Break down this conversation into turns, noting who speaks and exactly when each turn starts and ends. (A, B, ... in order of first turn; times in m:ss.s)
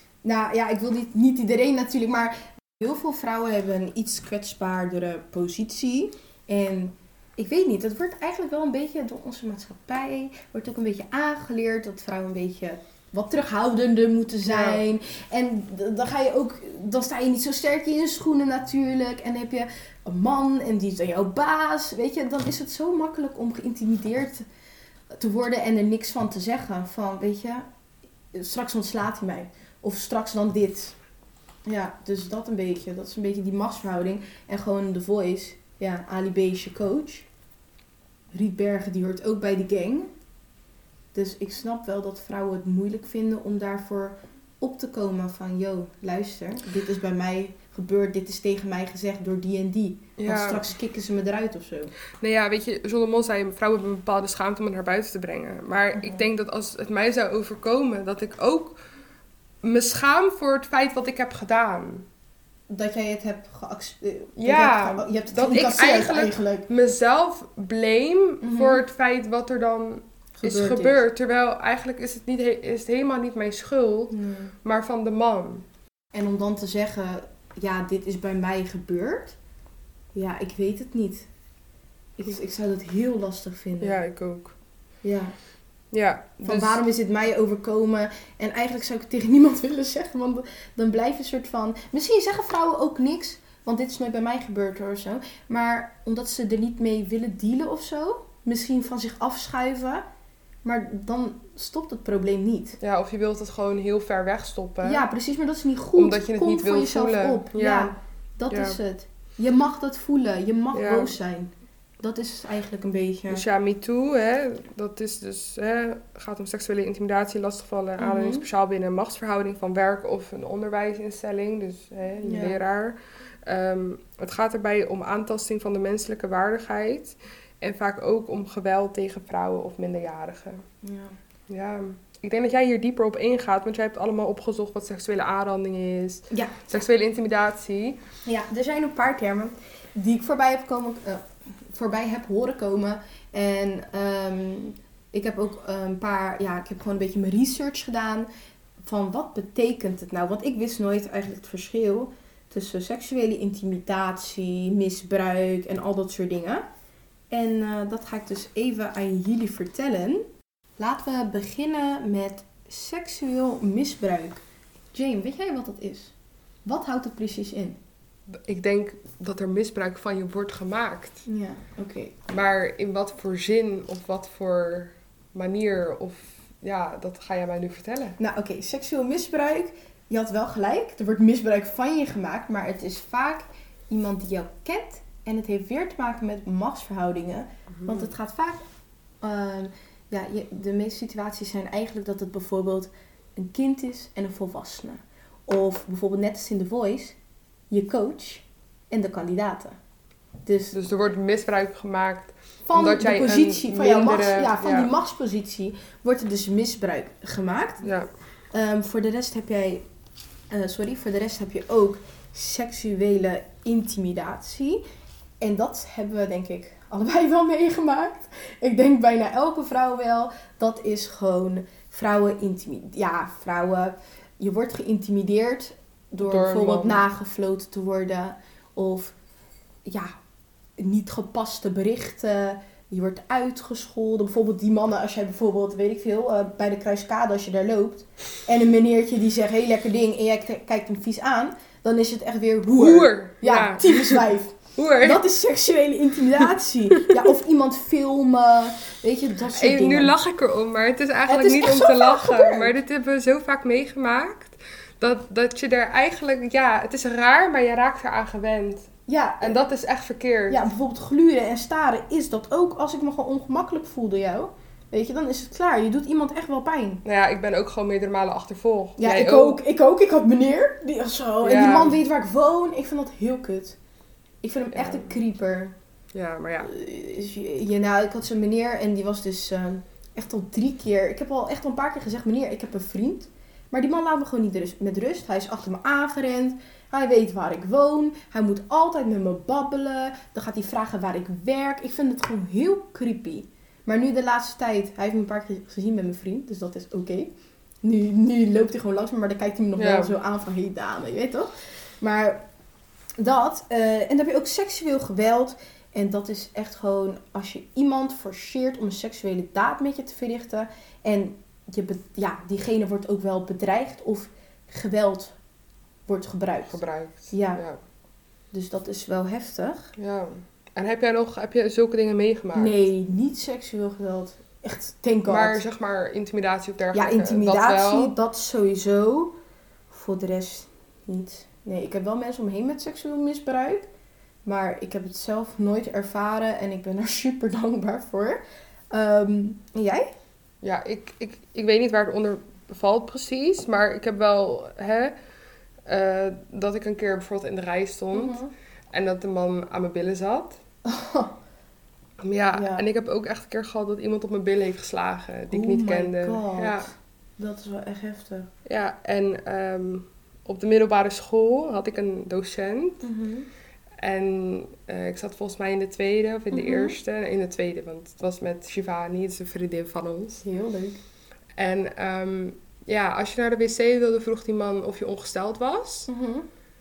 0:00.2-0:24.4 A
0:14.5-0:14.8 B
0:25.2-0:27.7 A
0:28.3-0:31.0 A
0:31.7-0:37.3 A
0:38.3-0:40.1 A
0:41.1-0:51.9 A
0:50.2-0:50.7 B
0:52.2-0:58.8 B
0:56.0-0:56.2 A
0:59.6-1:02.1 B
1:02.7-1:06.7 A
1:04.4-1:15.6 B
1:08.4-1:08.8 A
1:10.4-1:11.0 A
1:14.1-1:14.5 A
1:16.1-1:19.4 A
1:20.1-1:21.3 A
1:22.2-1:24.0 A
1:23.8-1:24.6 B
1:25.0-1:25.4 A
1:25.9-1:26.8 B
1:26.4-1:40.0 A
1:40.6-1:42.8 A
1:42.8-1:45.0 B
1:44.8-1:53.4 A
1:46.0-1:48.0 B
1:48.5-1:48.8 B
1:50.7-1:51.2 B
1:53.3-2:10.6 B
1:58.0-1:58.5 A
2:02.2-2:02.6 A
2:10.8-2:11.2 A
2:11.5-2:18.0 B
2:16.3-2:16.8 A
2:18.3-2:28.3 A
2:28.8-2:36.6 A
2:37.3-2:40.3 A
2:40.8-2:44.4 A
2:44.9-2:46.1 A
2:46.7-2:47.8 A
2:48.5-2:51.2 B
2:51.3-2:52.2 A
2:52.3-2:58.2 B
2:58.2-3:08.6 A
3:07.8-3:08.1 B
3:09.2-3:17.2 A
3:17.7-3:19.8 A
3:20.4-3:20.8 A
3:20.7-3:24.9 B
3:22.7-3:27.9 A
3:27.8-3:28.1 B
3:28.5-3:29.8 A
3:30.5-3:34.8 A
3:35.4-3:49.2 A
3:46.2-3:47.0 B
3:49.9-3:50.1 A
3:50.8-4:10.2 A
4:02.7-4:04.2 B
4:04.8-4:05.2 B
4:09.5-4:18.9 B
4:11.3-4:12.8 A
4:19.1-4:19.6 A
4:19.4-4:20.7 B
4:20.5-4:27.0 A
4:27.0-4:29.6 B
4:29.0-4:33.8 A
4:31.4-4:32.0 B
4:34.4-4:35.8 A
4:34.7-4:35.1 B
4:36.1-4:36.7 B
4:36.6-4:57.3 A
4:57.8-5:01.5 A
4:59.8-5:00.2 B
5:02.0-5:02.4 A
5:03.2-5:15.4 A
5:16.1-5:16.8 A
5:16.7-5:17.8 B
5:17.3-5:17.6 A
5:18.5-5:19.9 A
5:20.0-5:22.8 B
5:22.5-5:25.6 A
5:25.3-5:28.2 B
5:26.9-5:29.4 A
5:29.9-5:33.9 A
5:34.4-5:40.1 A
5:40.6-5:45.2 B
5:45.9-5:48.4 B
5:48.1-5:48.5 A
5:48.9-5:50.6 B
5:50.8-5:51.4 A
5:52.2-5:56.9 B
5:52.5-5:52.9 A
5:55.5-5:58.5 A
5:58.7-6:03.0 B
6:03.0-6:03.5 A
6:04.0-6:10.4 B
6:06.5-6:07.0 A
6:10.4-6:11.0 A
6:11.6-6:16.1 B
6:16.1-6:16.5 A